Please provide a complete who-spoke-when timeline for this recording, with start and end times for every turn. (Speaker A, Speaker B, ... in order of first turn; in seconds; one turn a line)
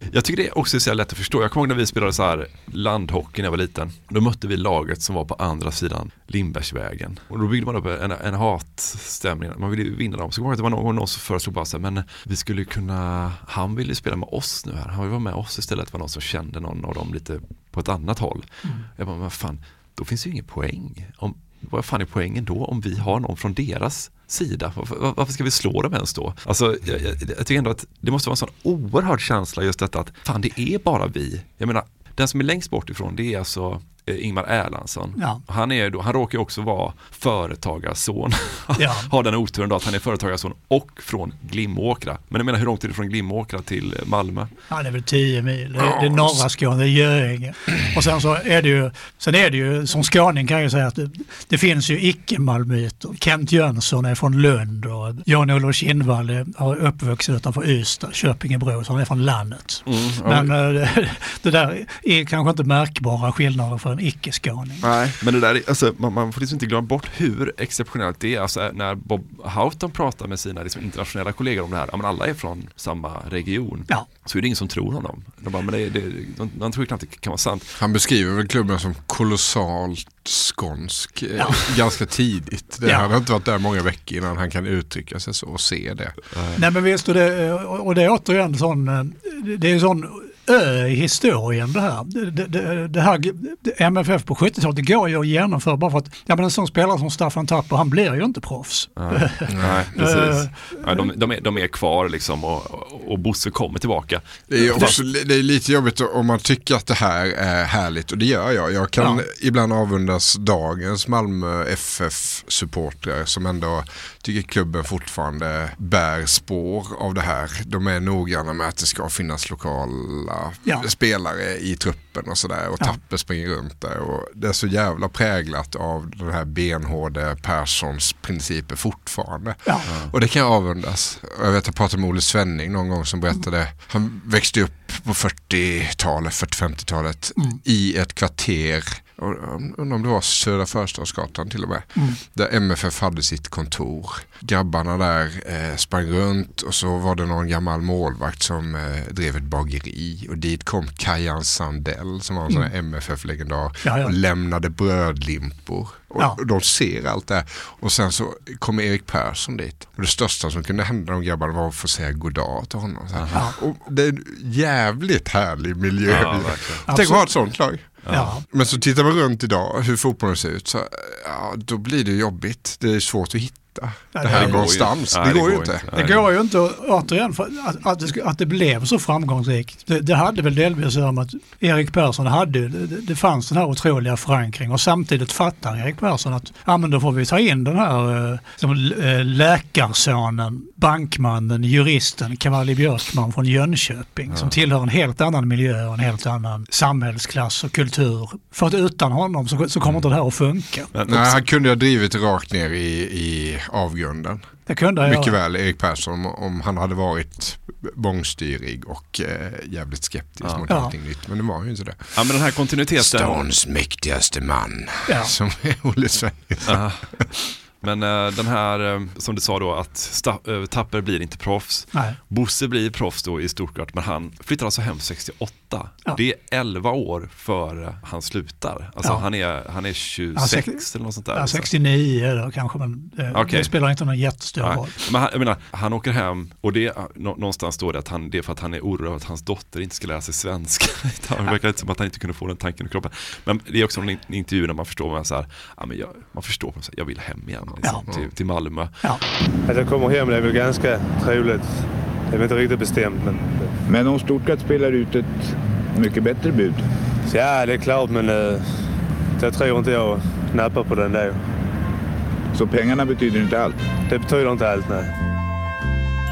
Speaker A: 0.1-44.5
Speaker B: 35.2-35.4
Speaker B: 38.8-39.1
Speaker B: 44.7-64.9
Speaker C: 45.8-46.4
Speaker A: 59.9-60.5
Speaker A: 64.8-77.7
Speaker C: 77.8-86.1
Speaker A: 86.3-86.6
Speaker B: 86.6-101.1
Speaker A: 99.0-105.0
Speaker C: 99.5-99.8
Speaker C: 104.5-175.8
Speaker B: 104.7-105.0
Speaker A: 129.8-130.1
Speaker B: 153.8-154.1
Speaker A: 163.2-163.4
Speaker A: 166.1-166.8
Speaker B: 166.9-167.5
Speaker A: 168.1-168.3
Speaker B: 168.1-168.4
Speaker B: 174.1-174.7
Speaker A: 174.3-176.3
Speaker B: 175.9-200.9
Speaker A: 200.9-201.4
Speaker C: 201.1-204.4
Speaker B: 204.7-205.3
Speaker C: 205.0-212.1
Speaker B: 210.7-210.9
Speaker A: 212.1-213.5
Speaker C: 213.0-216.8
Speaker A: 216.7-217.0
Speaker A: 217.8-231.7
Speaker B: 230.4-230.8
Speaker B: 231.3-234.9
Speaker A: 233.3-233.7
Speaker A: 234.6-249.1
Speaker C: 247.7-248.2
Speaker D: 249.7-253.7
Speaker E: 253.9-256.8
Speaker D: 257.3-261.4
Speaker E: 262.5-263.8
Speaker D: 264.1-265.1